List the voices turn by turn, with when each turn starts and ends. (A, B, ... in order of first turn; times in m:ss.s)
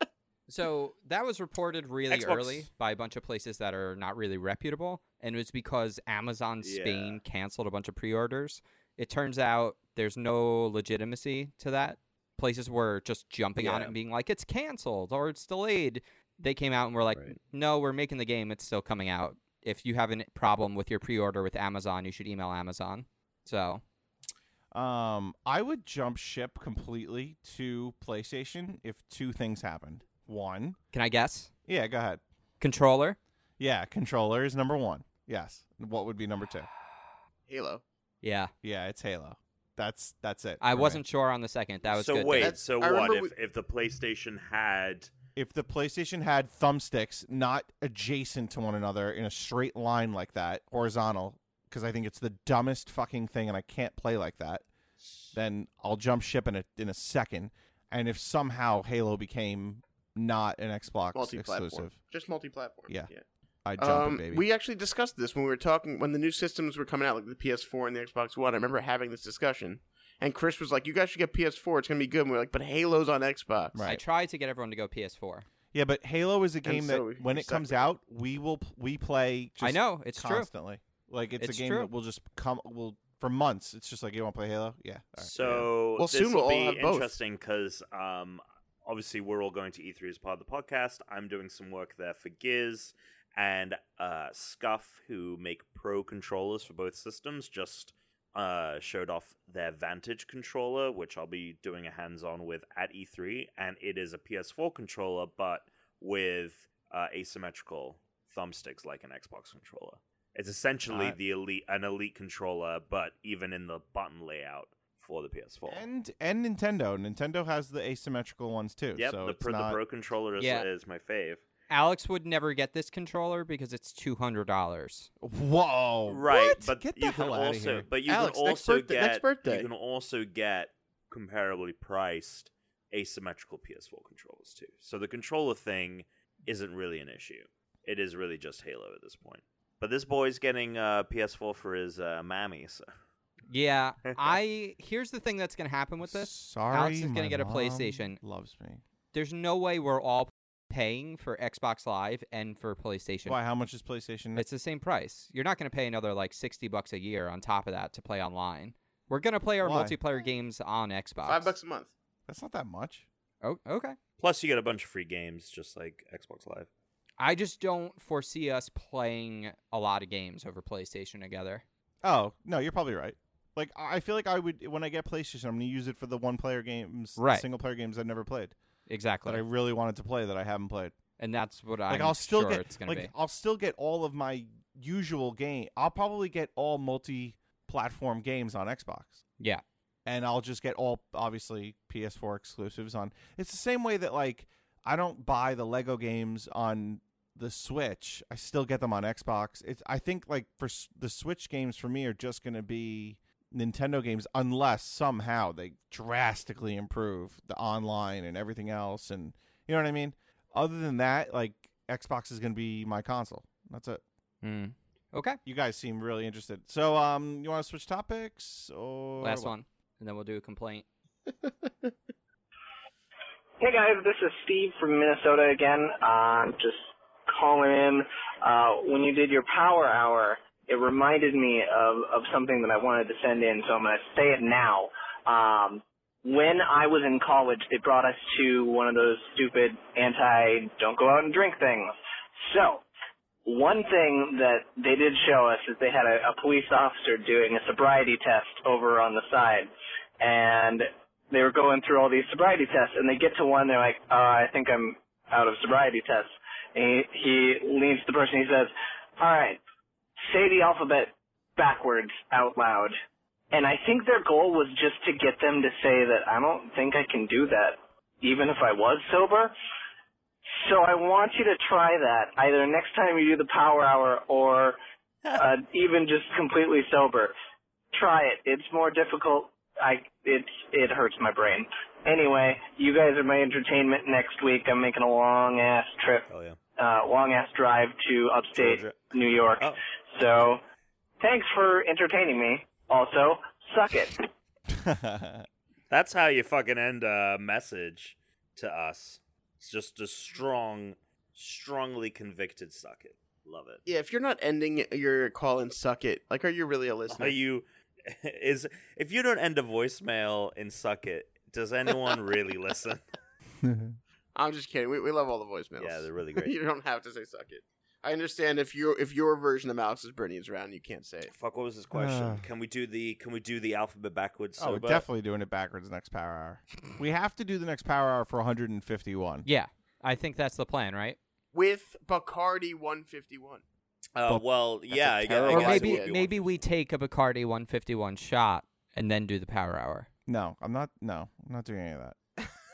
0:00.5-0:23.8 A
0:02.1-0:02.7 B
0:06.6-0:07.2 B
0:13.6-0:13.9 B
0:24.7-0:30.8 C
0:30.9-0:31.5 A
0:31.7-0:32.2 C
0:32.6-0:33.2 A
0:33.6-0:36.7 C
0:37.5-0:37.8 D
0:38.2-0:38.5 A
0:38.6-0:41.0 C
0:40.6-0:42.5 A
0:41.9-0:45.1 B
0:42.3-0:43.3 D
0:45.4-0:54.6 C
0:55.3-1:02.0 C
1:01.1-1:03.2 D
1:03.6-1:04.5 C
1:03.8-1:13.8 D
1:13.7-1:14.0 C
1:13.8-1:15.5 A
1:15.7-1:25.7 C
1:16.6-1:17.9 D
1:19.6-1:20.5 A
1:21.4-1:21.9 A
1:25.2-1:55.8 B
1:26.0-1:27.2 D
1:50.9-1:51.2 C
1:55.7-1:59.8 C
1:58.9-2:01.4 B
2:00.4-2:00.7 A
2:01.7-2:05.1 A
2:05.2-2:07.9 C
2:06.1-2:22.9 B
2:08.1-2:09.7 D
2:23.5-2:28.2 A
2:26.0-2:28.8 C
2:29.1-2:33.4 A
2:33.2-2:34.4 C
2:34.4-2:41.5 A
2:39.6-2:40.0 C
2:41.2-2:41.9 D
2:42.3-2:43.0 C
2:43.4-2:44.0 A
2:44.2-2:46.7 B
2:47.2-2:51.6 A
2:52.0-2:58.5 C
2:57.2-2:57.4 A
2:58.9-2:59.4 A
2:59.2-3:01.0 C
3:01.2-3:03.1 A
3:01.9-3:09.2 C
3:10.0-3:34.0 C
3:34.4-3:35.4 A
3:35.4-3:39.5 C
3:39.2-3:40.8 A
3:43.6-4:02.8 E
4:03.4-4:19.6 E
4:20.3-4:22.9 E
4:23.5-4:29.5 E
4:30.6-4:34.8 E
4:35.3-4:37.3 E
4:37.9-4:50.6 E
4:46.3-4:46.6 B
4:48.5-4:49.8 B
4:51.2-4:54.2 E
4:54.7-4:55.4 C
4:55.9-5:03.8 B
5:03.8-5:07.4 D
5:07.1-5:13.0 B
5:13.6-5:14.0 C
5:14.3-5:21.3 D
5:15.8-5:16.5 B
5:21.3-5:25.0 B
5:21.9-5:22.4 C
5:24.6-5:29.5 C
5:29.4-5:31.2 A
5:31.5-5:33.6 D
5:34.1-5:36.6 B
5:34.3-5:35.5 C
5:35.3-5:36.1 D
5:35.5-5:40.1 A
5:40.3-5:42.2 C